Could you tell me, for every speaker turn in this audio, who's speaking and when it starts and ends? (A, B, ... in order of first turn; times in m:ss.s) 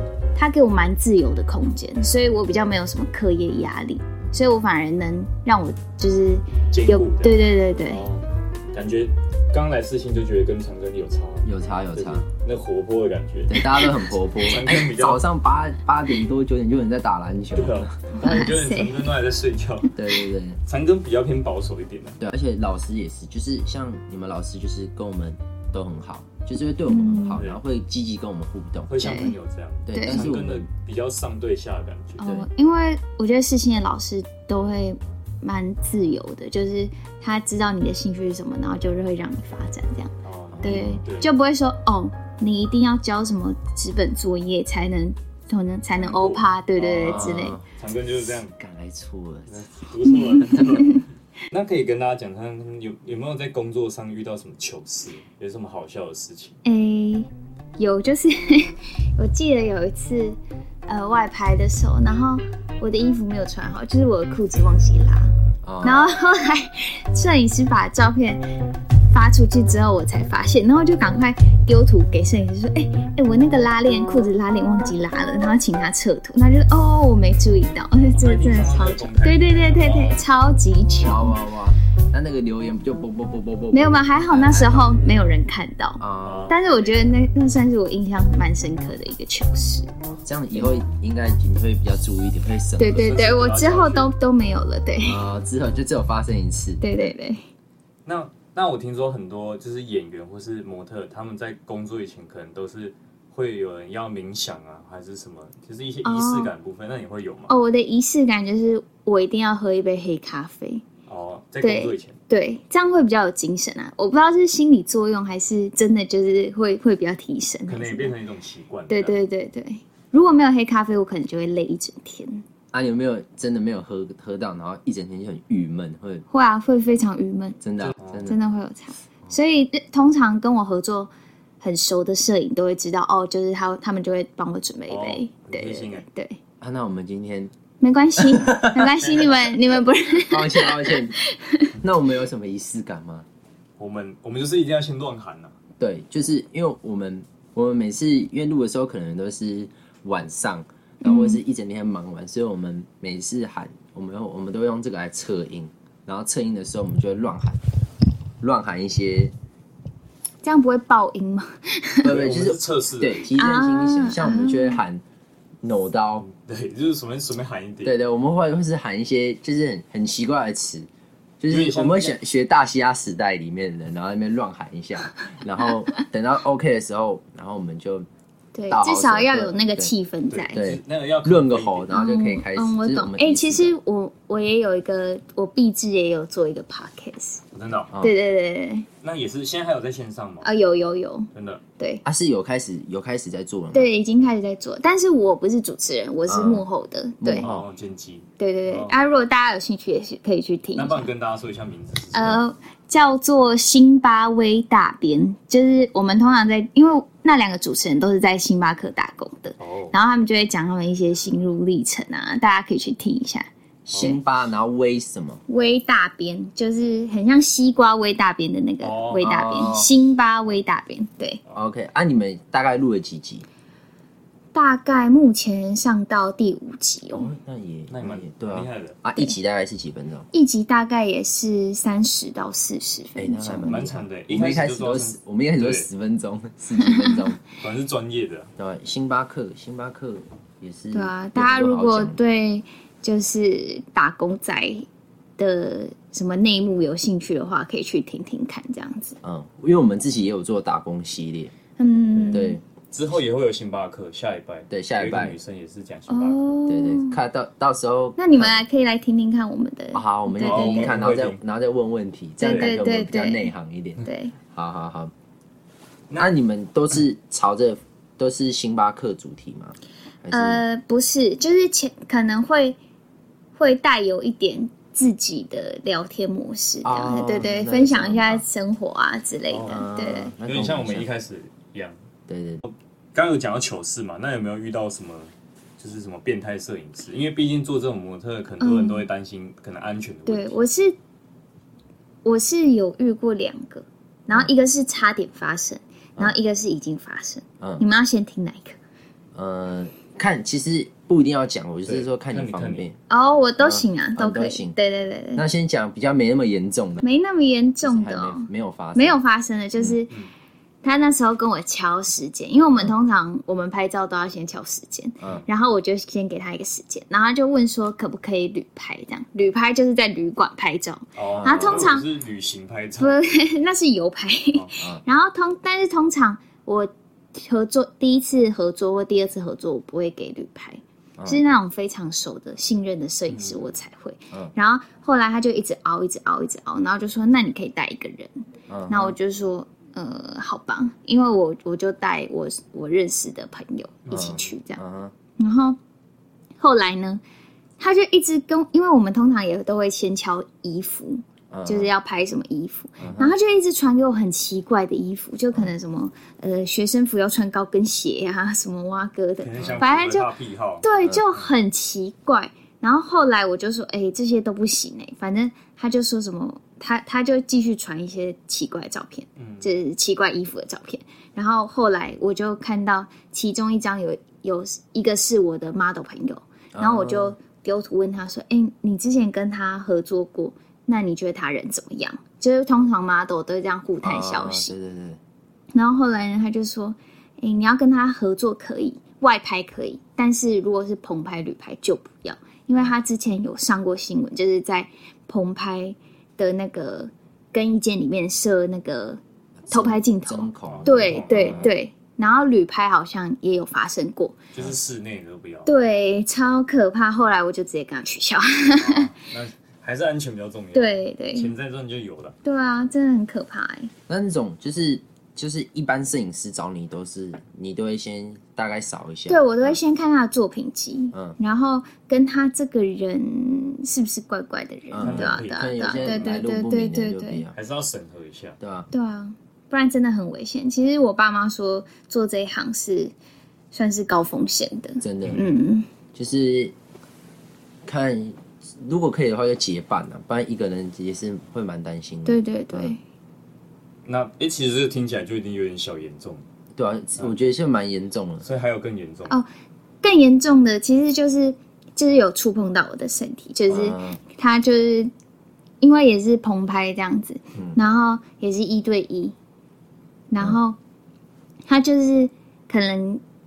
0:00.3-0:08.0 A
0:06.7-0:15.2 B
0:11.4-0:12.2 C
0:13.5-0:17.9 C
0:17.6-0:20.0 B
0:18.2-0:19.0 A
0:20.0-0:20.6 C
0:20.7-0:22.2 B
0:22.2-0:29.2 C
0:26.9-0:27.4 A
0:27.3-0:27.6 B
0:28.9-0:32.2 B
0:29.0-0:29.3 A
0:29.8-0:30.7 C
0:29.9-0:30.3 A
0:32.2-0:40.1 A
0:32.2-0:32.5 C
0:40.2-0:41.3 B
0:40.5-0:41.0 C
0:40.6-0:47.6 A
0:46.0-0:48.5 B
0:47.0-0:49.6 C
0:49.5-0:56.6 B
0:56.6-1:08.4 A
1:05.6-1:06.1 C
1:09.1-1:21.4 A
1:18.1-1:20.2 B
1:21.0-1:25.0 C
1:23.7-1:29.9 A
1:26.0-1:26.5 C
1:26.2-1:27.0 B
1:30.1-1:33.1 C
1:32.8-1:35.2 A
1:33.0-1:34.1 B
1:35.0-1:36.8 C
1:36.8-1:37.4 A
1:38.0-1:47.5 B
1:46.0-1:46.5 A
1:47.5-1:50.8 A
1:51.1-1:52.2 B
1:51.6-1:58.2 A
1:57.7-1:59.2 B
1:58.9-2:02.4 A
2:02.7-2:06.2 C
2:06.3-2:07.6 A
2:07.6-2:08.4 C
2:07.9-2:08.3 B
2:08.2-2:11.1 A
2:11.6-2:16.4 A
2:14.9-2:16.0 B
2:16.6-2:17.5 C
2:17.8-2:21.7 A
2:18.2-2:18.9 C
2:19.0-2:19.6 B
2:20.2-2:21.2 C
2:21.8-2:23.2 C
2:23.8-2:25.5 B
2:25.8-2:37.6 C
2:31.0-2:31.4 A
2:38.4-2:39.3 C
2:40.4-2:42.1 A
2:42.0-2:45.0 C
2:42.0-2:43.3 B
2:43.3-2:44.8 A
2:45.6-2:46.2 C
2:46.2-2:47.9 B
2:47.8-2:50.9 C
2:51.4-2:58.0 C
2:51.5-2:52.2 B
2:58.5-3:00.6 A
2:58.7-2:59.9 C
3:00.3-3:01.9 B
3:00.5-3:03.8 C
3:01.9-3:07.4 A
3:07.5-3:07.9 B
3:08.0-3:08.9 A
3:09.0-3:10.5 B
3:10.4-3:12.0 A
3:11.3-3:11.6 B
3:12.0-3:13.9 C
3:13.7-3:17.4 A
3:16.3-3:16.6 C
3:17.2-3:17.6 C
3:17.4-3:19.0 B
3:18.4-3:21.1 A
3:20.8-3:22.4 B
3:22.1-3:34.2 A
3:29.6-3:29.9 B
3:33.9-3:34.2 B
3:33.9-3:35.4 C
3:35.5-3:41.4 A
3:38.8-3:39.3 B
3:39.2-3:39.9 C
3:41.5-3:43.4 C
3:44.5-3:47.3 A
3:47.1-3:50.3 C
3:47.9-3:49.0 B
3:50.3-3:53.7 A
3:53.2-3:57.4 C
3:53.7-3:55.9 B
3:56.8-3:57.2 A
3:57.6-3:58.5 B
3:58.6-4:02.2 C
4:00.9-4:04.8 A
4:05.4-4:09.2 A
4:09.2-4:11.5 C
4:11.8-4:12.6 A
4:12.3-4:12.6 C
4:12.9-4:16.4 B
4:14.7-4:15.4 C
4:16.1-4:17.2 A
4:16.7-4:18.6 C
4:18.2-4:21.0 A
4:19.9-4:25.1 C
4:20.4-4:21.4 B
4:22.4-4:24.3 A
4:22.4-4:22.7 B
4:26.2-4:30.6 C
4:30.3-4:32.8 A
4:33.6-4:40.3 A
4:36.8-4:38.4 C
4:39.5-4:39.8 B
4:39.6-4:41.1 C
4:40.4-4:42.0 B
4:42.3-4:42.6 C
4:42.6-4:50.6 B
4:48.6-4:49.1 A
4:50.3-4:50.9 A
4:52.2-4:58.8 A
4:57.6-4:57.8 C
4:59.3-5:03.0 C
5:01.8-5:02.8 B
5:03.1-5:05.4 A
5:03.6-5:04.8 C
5:05.3-5:07.0 C
5:07.0-5:10.1 A
5:07.8-5:09.2 C
5:10.8-5:22.1 A
5:15.2-5:15.4 C
5:21.2-5:23.2 B
5:21.3-5:21.9 C
5:23.0-5:44.8 A
5:31.2-5:31.4 C
5:33.3-5:33.6 B
5:38.7-5:39.2 C
5:44.0-5:44.4 B
5:44.1-5:45.1 C
5:45.4-5:45.8 A
5:46.6-5:47.2 A
5:47.8-6:00.3 A
5:51.5-5:51.9 C
5:53.0-5:53.3 C
5:59.4-6:01.5 B
5:59.6-5:59.8 C
6:00.8-6:24.7 A
6:09.4-6:09.7 B
6:16.7-6:17.4 C
6:24.0-6:25.2 C
6:25.7-6:44.4 A
6:39.7-6:41.7 C
6:40.7-6:41.7 B
6:44.5-6:45.7 B
6:45.6-6:49.1 A
6:48.7-6:52.4 B
6:50.7-6:51.5 A
6:52.4-6:53.9 A
6:54.1-6:59.8 C
6:59.3-7:07.4 A
7:01.1-7:01.4 C
7:04.9-7:07.5 C
7:05.0-7:06.4 B
7:07.5-7:08.6 B
7:08.6-7:08.9 C
7:08.9-7:13.1 A
7:13.7-7:15.9 A
7:15.0-7:15.4 C
7:16.1-7:16.7 C
7:17.8-7:23.0 C
7:22.2-7:23.0 A
7:24.0-7:26.4 B
7:26.7-7:28.4 C
7:28.4-7:29.4 B
7:30.0-7:35.1 A
7:33.7-7:34.2 C
7:35.8-7:39.3 A
7:40.3-7:40.8 A
7:41.7-7:43.2 A